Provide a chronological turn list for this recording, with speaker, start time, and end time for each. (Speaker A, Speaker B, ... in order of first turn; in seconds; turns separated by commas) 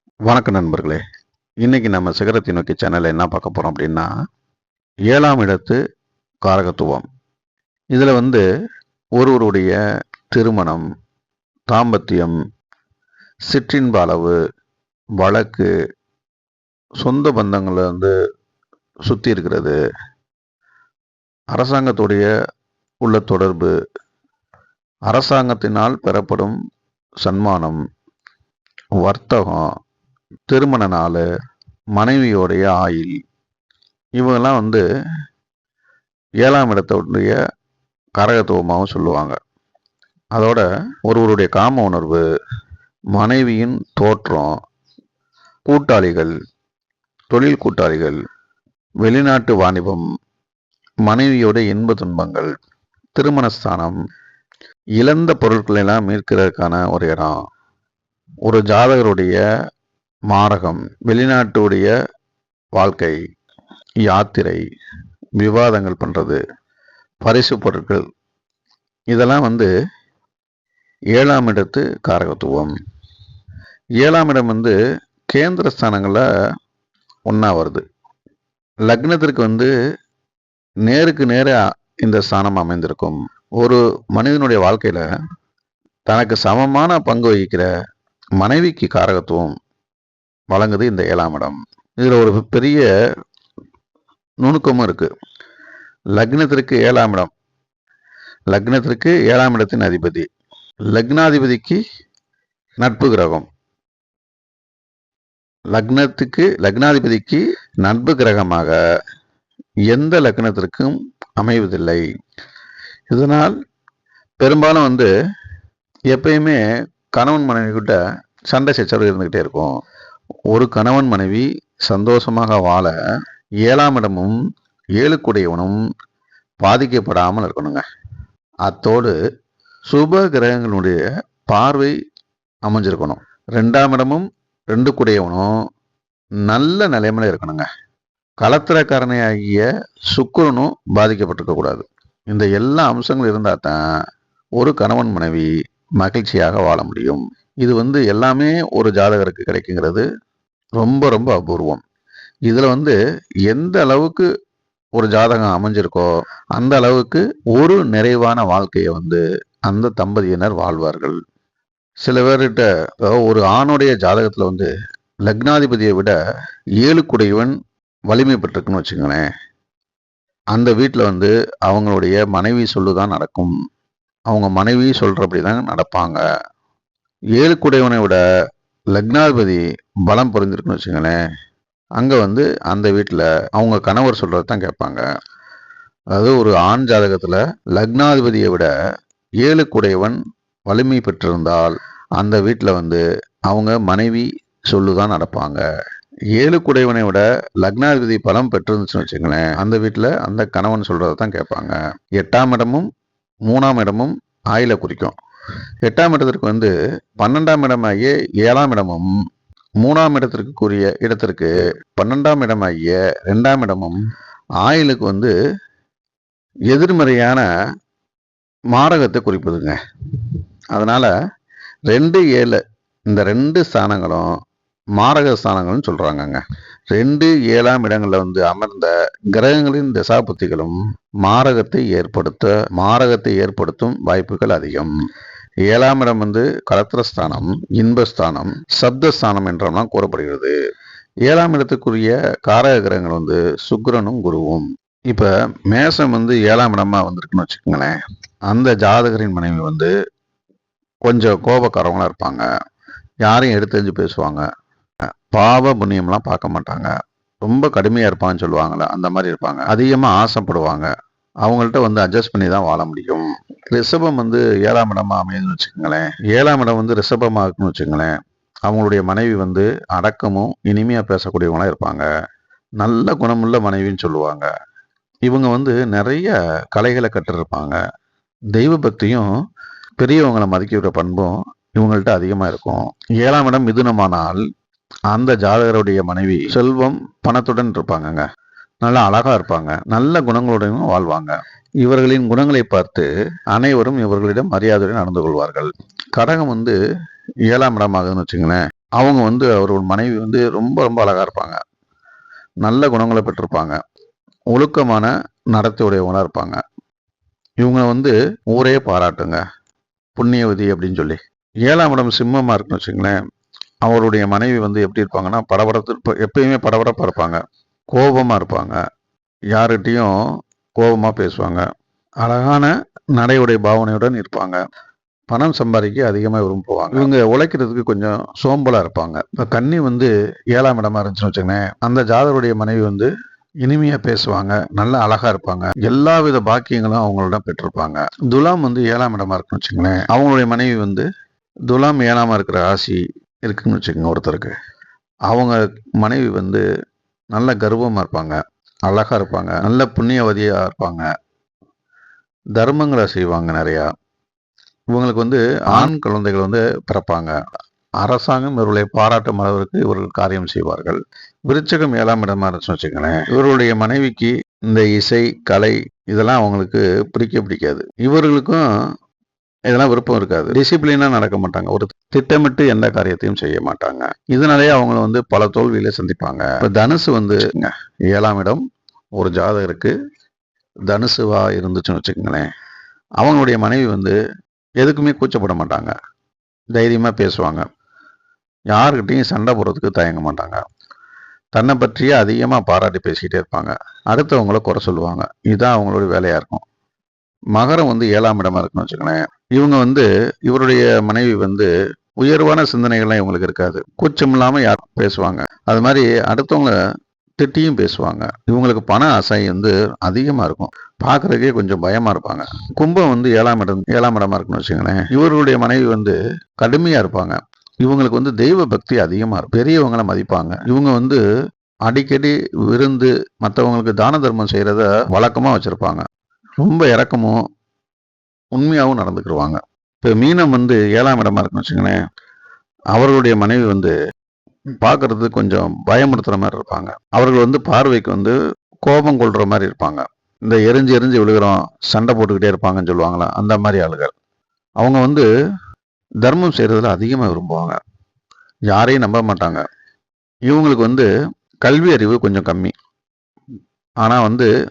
Speaker A: 0.2-1.0, Speaker A: 1.6-4.1, Speaker A: 5.1-5.8, Speaker A: 6.4-7.1, Speaker A: 7.9-8.4, Speaker A: 9.2-9.8, Speaker A: 10.3-10.9, Speaker A: 11.7-12.4, Speaker A: 13.5-14.4, Speaker A: 15.2-15.7, Speaker A: 17.0-18.1, Speaker A: 19.1-19.8, Speaker A: 21.5-22.3, Speaker A: 23.0-23.7, Speaker A: 25.1-26.6, Speaker A: 27.2-27.8, Speaker A: 29.0-29.7, Speaker A: 30.5-31.2, Speaker A: 31.9-33.2, Speaker A: 34.2-34.8, Speaker A: 36.4-37.4, Speaker A: 38.1-39.4, Speaker A: 40.3-42.2, Speaker A: 43.1-44.6, Speaker A: 45.7-46.4, Speaker A: 47.3-48.2, Speaker A: 49.0-50.0, Speaker A: 51.0-52.5, Speaker A: 53.1-54.0, Speaker A: 55.0-57.4, Speaker A: 58.4-59.4, Speaker A: 60.3-61.9, Speaker A: 62.7-63.2, Speaker A: 64.0-64.6, Speaker A: 65.4-66.4, Speaker A: 67.2-68.0, Speaker A: 69.1-69.7, Speaker A: 71.1-72.8, Speaker A: 74.0-74.8, Speaker A: 75.3-76.2, Speaker A: 77.3-77.8, Speaker A: 78.8-79.7, Speaker A: 80.8-85.1, Speaker A: 86.1-87.7, Speaker A: 88.4-89.5, Speaker A: 90.5-92.9, Speaker A: 94.4-95.1, Speaker A: 96.2-97.3, Speaker A: 98.5-100.3, Speaker A: 100.9-101.8, Speaker A: 102.8-103.5, Speaker A: 105.7-108.8, Speaker A: 109.9-112.0, Speaker A: 113.1-113.5, Speaker A: 114.4-115.1, Speaker A: 116.1-116.6, Speaker A: 117.1-119.7, Speaker A: 120.5-122.9, Speaker A: 123.6-124.4, Speaker A: 125.0-125.8, Speaker A: 126.6-127.8, Speaker A: 128.6-129.2, Speaker A: 129.9-131.9, Speaker A: 132.6-135.5, Speaker A: 136.4-137.7, Speaker A: 138.4-143.8, Speaker A: 144.6-150.1, Speaker A: 150.8-151.8, Speaker A: 152.5-154.3, Speaker A: 154.9-161.2, Speaker A: 162.0-164.7, Speaker A: 165.2-166.2, Speaker A: 166.8-167.6, Speaker A: 168.1-169.3, Speaker A: 170.5-173.5, Speaker A: 174.3-176.2, Speaker A: 177.3-178.2, Speaker A: 178.9-181.2, Speaker A: 182.0-185.0, Speaker A: 186.1-188.7, Speaker A: 189.4-195.6, Speaker A: 196.3-202.9, Speaker A: 203.4-205.1, Speaker A: 205.8-209.1, Speaker A: 209.8-214.0, Speaker A: 214.6-215.3, Speaker A: 216.7-217.4, Speaker A: 218.7-221.1, Speaker A: 221.9-224.3, Speaker A: 224.9-226.4, Speaker A: 226.9-234.9, Speaker A: 235.7-240.6, Speaker A: 241.2-249.9, Speaker A: 251.0-252.5, Speaker A: 253.2-254.5, Speaker A: 255.3-256.9, Speaker A: 257.4-260.9, Speaker A: 261.4-272.1, Speaker A: 272.8-274.5, Speaker A: 275.2-277.8, Speaker A: 278.5-279.3, Speaker A: 280.0-284.4, Speaker A: 285.1-288.2, Speaker A: 288.8-296.8, Speaker A: 297.5-301.6, Speaker A: 302.6-303.8, Speaker A: 304.5-306.6, Speaker A: 307.6-309.4, Speaker A: 310.1-313.2, Speaker A: 313.8-318.8, Speaker A: 319.5-320.2, Speaker A: 320.8-321.7, Speaker A: 322.2-324.6, Speaker A: 325.3-333.1, Speaker A: 333.6-341.1, Speaker A: 341.7-344.6, Speaker A: 345.3-346.6, Speaker A: 347.3-351.1, Speaker A: 352.6-353.9, Speaker A: 354.9-357.4, Speaker A: 358.0-368.7, Speaker A: 369.7-379.9, Speaker A: 380.9-382.5, Speaker A: 383.2-384.2, Speaker A: 384.8-385.9, Speaker A: 386.7-387.7, Speaker A: 388.7-390.6, Speaker A: 391.5-396.6, Speaker A: 397.6-406.8, Speaker A: 407.4-421.2, Speaker A: 421.9-426.1, Speaker A: 426.6-427.4, Speaker A: 428.5-432.0, Speaker A: 432.9-433.9, Speaker A: 434.8-444.1, Speaker A: 444.8-445.3, Speaker A: 446.2-447.8, Speaker A: 448.7-449.6, Speaker A: 450.5-451.1, Speaker A: 451.6-452.7, Speaker A: 454.0-454.5